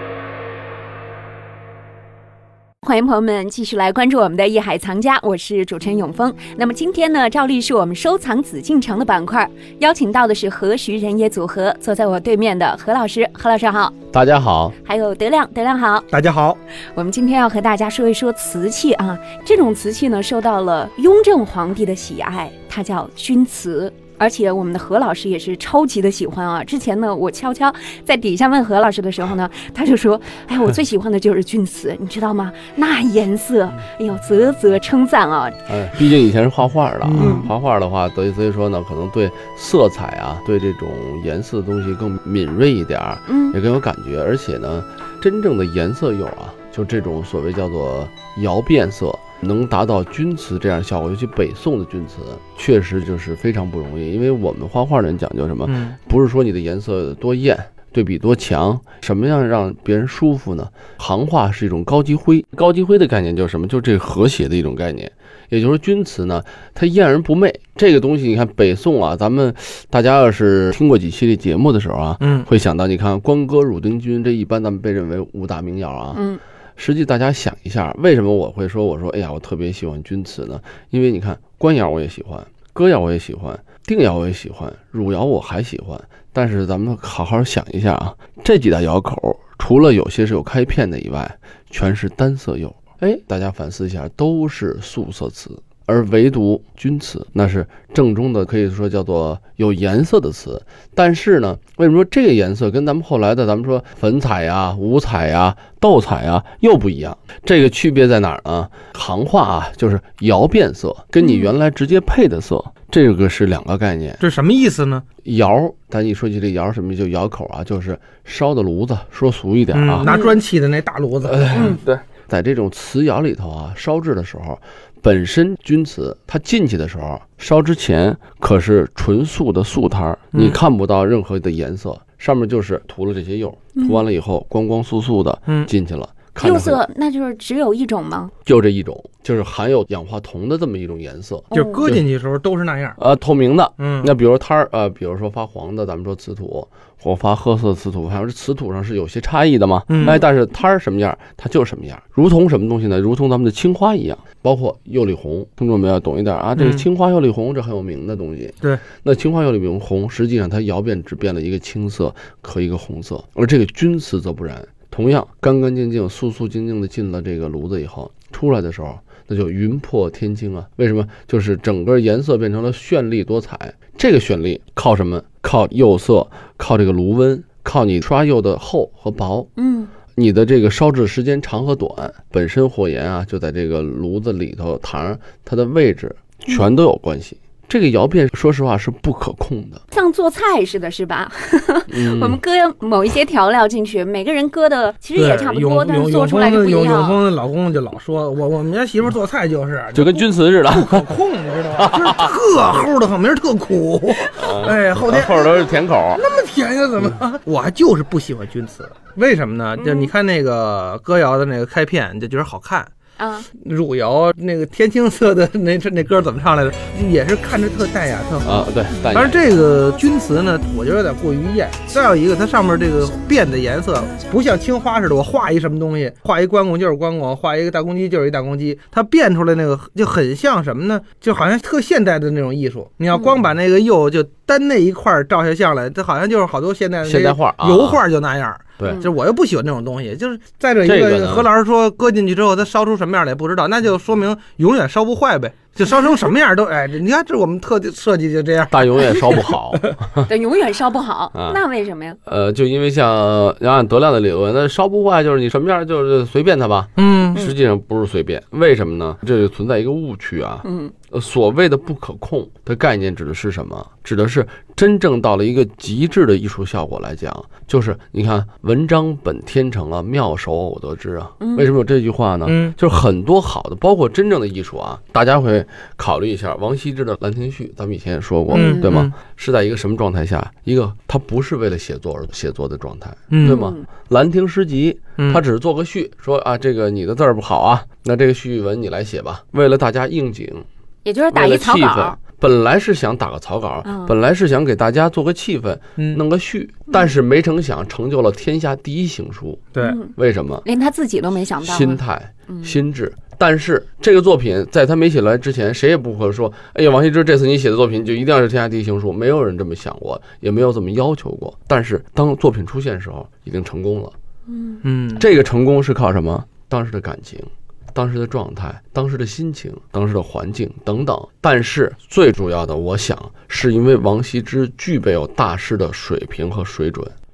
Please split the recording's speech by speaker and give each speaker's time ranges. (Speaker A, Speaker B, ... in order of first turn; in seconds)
Speaker A: 2.8-14.0, 14.8-16.1, 16.9-35.6, 37.2-37.5, 43.3-43.6, 76.1-76.4, 111.2-111.5, 120.0-120.4, 121.5-121.8, 136.4-138.3, 141.5-141.9, 179.6-179.9, 189.9-197.2, 209.8-210.1, 213.2-213.5, 233.1-233.4, 238.8-239.1, 250.3-252.2, 260.6-260.9, 271.4-271.7, 278.5-278.9, 283.4-283.8, 291.1-292.2, 293.9-294.2, 299.8-300.1, 300.6-302.8, 314.5-314.8
Speaker B: 14.1-14.8, 35.7-76.2, 76.8-114.2, 115.2-120.1, 121.2-136.8, 138.5-142.0, 143.0-179.5, 180.1-189.8, 191.9-192.4, 199.9-201.1, 201.8-202.3, 204.4-206.2, 218.4-219.4, 237.0-238.0, 238.8-239.0, 240.8-241.5, 248.7-250.3, 251.3-251.6, 252.2-290.7, 291.3-300.7, 301.6-314.1, 315.2-327.1
Speaker C: 16.1-16.6, 37.0-37.4, 55.6-56.0, 72.2-72.5, 114.2-115.0, 119.7-121.7, 130.3-130.6, 141.5-143.0, 143.8-144.1, 149.9-150.2, 156.6-156.9, 195.2-212.9, 213.6-249.9, 257.0-257.4, 272.4-272.8, 278.5-279.1, 283.3-283.6, 285.2-285.4, 314.8-315.3